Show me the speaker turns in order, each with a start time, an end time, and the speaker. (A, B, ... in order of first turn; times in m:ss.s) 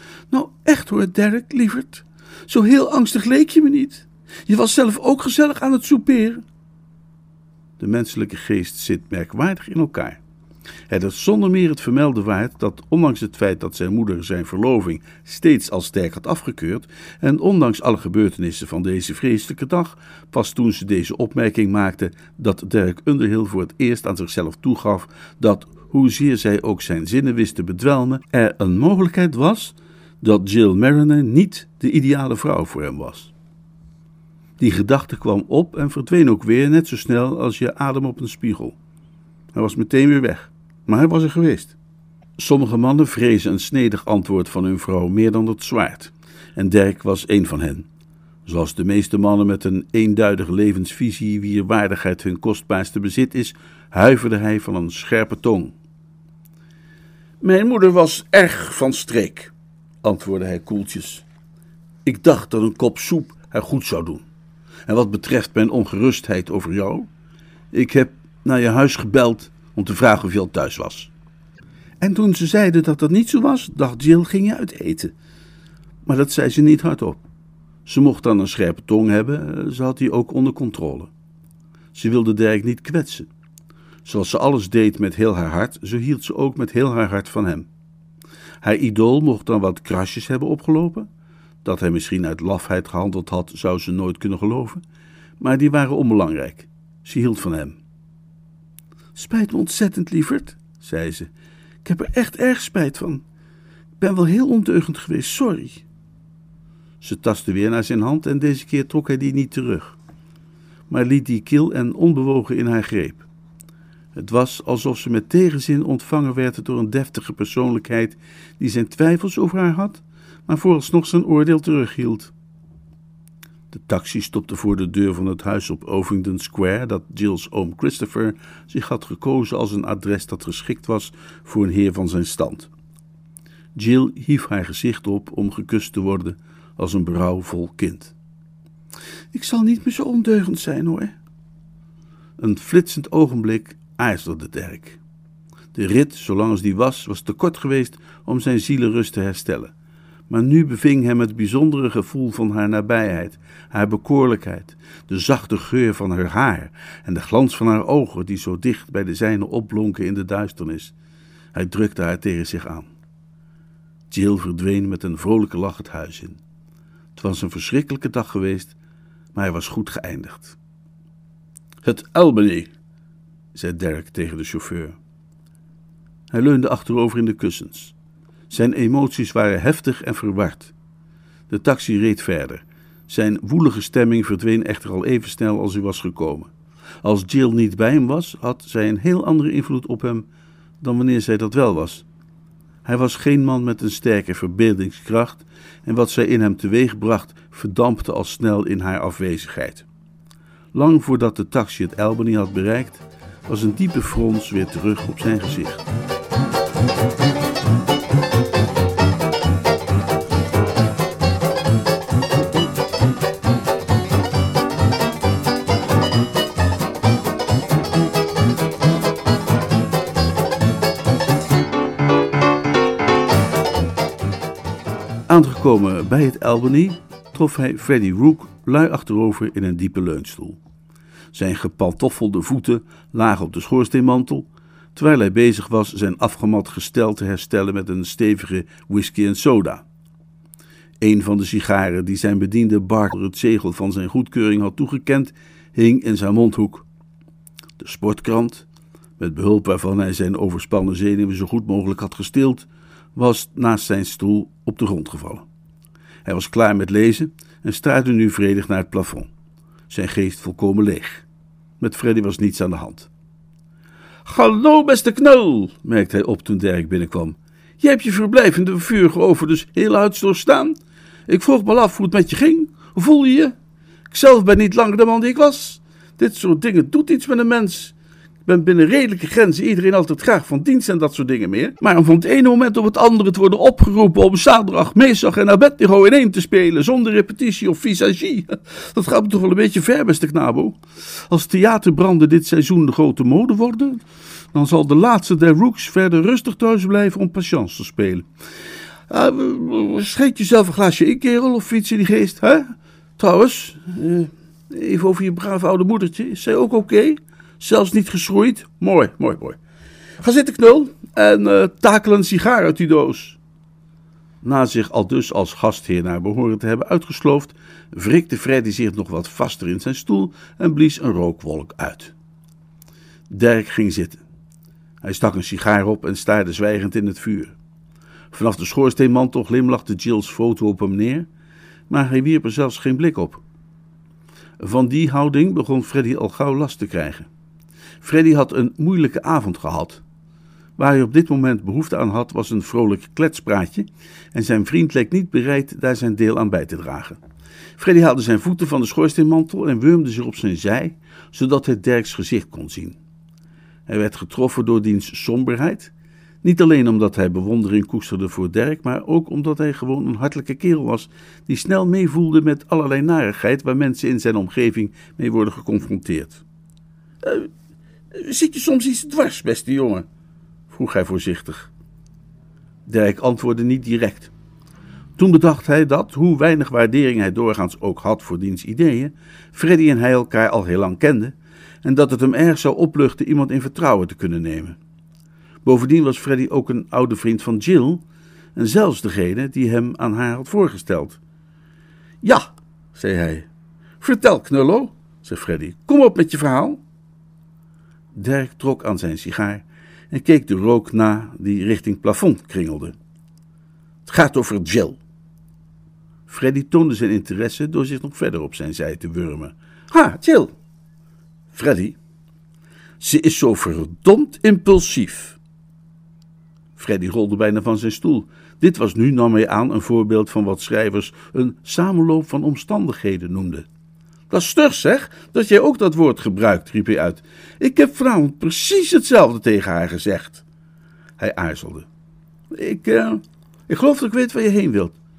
0:00.3-0:06.4 A
0:07.8-0:10.2 A
0:10.9-0:33.3 A
0:34.6-0:38.8 A
0:39.5-0:41.8 A
0:42.4-0:47.9 A
0:48.5-0:55.8 A
0:57.4-0:59.5 A
1:00.0-1:01.2 A
1:02.0-1:04.2 A
1:04.9-1:07.1 A
1:07.7-1:11.1 A
1:12.0-1:15.1 A
1:16.0-1:17.2 A
1:17.8-1:21.1 A
1:21.9-1:23.3 A
1:24.0-1:27.7 A
1:28.6-1:31.1 A
1:31.6-1:34.8 A
1:35.4-1:37.8 A
1:39.2-1:41.3 A
1:41.8-1:43.2 A
1:44.0-1:45.8 A
1:47.0-1:50.0 A
1:50.9-1:53.2 A
1:54.2-2:02.3 A
2:03.7-2:12.7 A
2:13.8-2:18.1 A
2:19.3-2:21.1 A
2:22.4-2:25.0 A
2:25.7-2:29.7 A
2:30.3-2:40.9 A
2:41.5-2:42.9 A
2:44.1-2:46.4 A
2:47.2-2:48.8 A
2:49.3-2:50.6 A
2:51.8-2:52.7 A
2:53.5-2:55.0 A
2:56.3-2:58.0 A
2:58.5-3:00.7 A
3:01.5-3:06.5 A
3:07.0-3:10.3 A
3:10.8-3:12.0 A
3:12.8-3:19.9 A
3:20.7-3:25.8 A
3:45.3-3:50.6 A
3:51.3-3:59.8 A
4:01.0-4:06.9 A
4:07.8-4:08.7 A
4:09.2-4:15.4 A
4:16.2-4:19.3 A
4:19.9-4:21.2 A
4:21.8-4:23.1 A
4:24.2-4:30.8 A
4:31.3-4:33.5 A
4:34.1-4:54.0 A
4:54.5-4:58.3 A
4:59.1-5:09.6 A
5:10.2-5:13.4 A
5:14.4-5:22.1 A
5:23.3-5:24.2 A
5:25.0-5:27.6 A
5:28.3-5:31.3 A
5:31.9-5:33.4 A
5:34.6-5:37.3 A
5:38.0-5:40.0 A
5:40.8-5:47.2 A
5:47.8-5:53.0 A
5:53.9-5:55.9 A
5:56.4-6:06.4 A
6:07.2-6:07.5 A
6:08.1-6:10.1 A
6:10.7-6:11.7 A
6:12.9-6:14.3 A
6:15.2-6:24.8 A
6:25.6-6:28.0 A
6:28.6-6:31.2 A
6:32.2-6:33.5 A
6:34.0-6:36.8 A
6:38.1-6:43.0 A
6:44.1-6:45.0 A
6:46.3-6:50.5 A
6:51.5-6:52.0 A
6:53.0-6:55.4 A
6:56.8-7:03.7 A
7:04.3-7:10.4 A
7:11.2-7:11.9 A
7:12.5-7:15.0 A